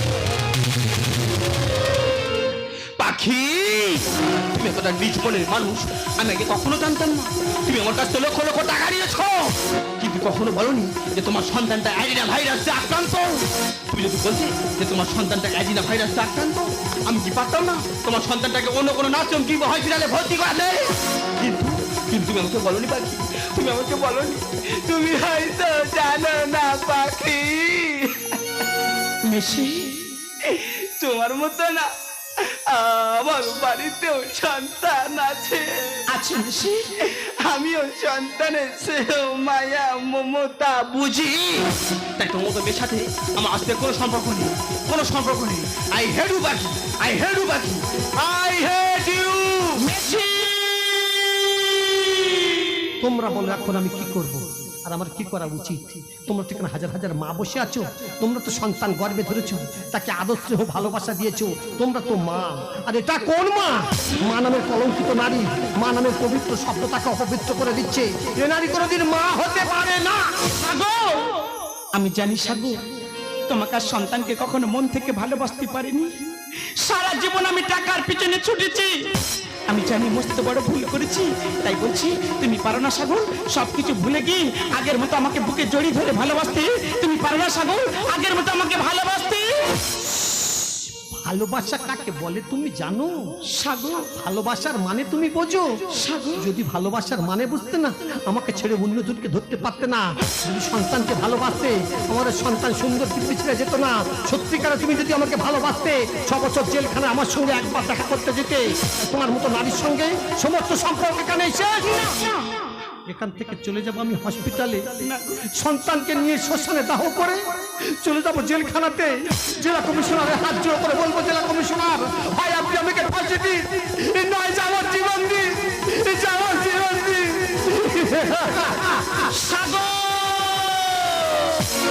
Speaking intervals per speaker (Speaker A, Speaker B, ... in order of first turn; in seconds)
Speaker A: 3.0-28.4, 30.4-36.0, 37.0-49.9
Speaker B: 29.3-30.0, 36.1-36.9, 49.8-52.0, 70.6-71.4, 71.9-72.8, 73.5-76.1, 76.8-79.0, 79.7-89.5, 93.5-94.1, 95.9-96.5, 111.9-112.6, 115.0-115.5, 129.2-131.6
Speaker C: 53.0-70.2, 91.1-93.3, 94.1-112.1, 113.1-115.0, 115.5-129.3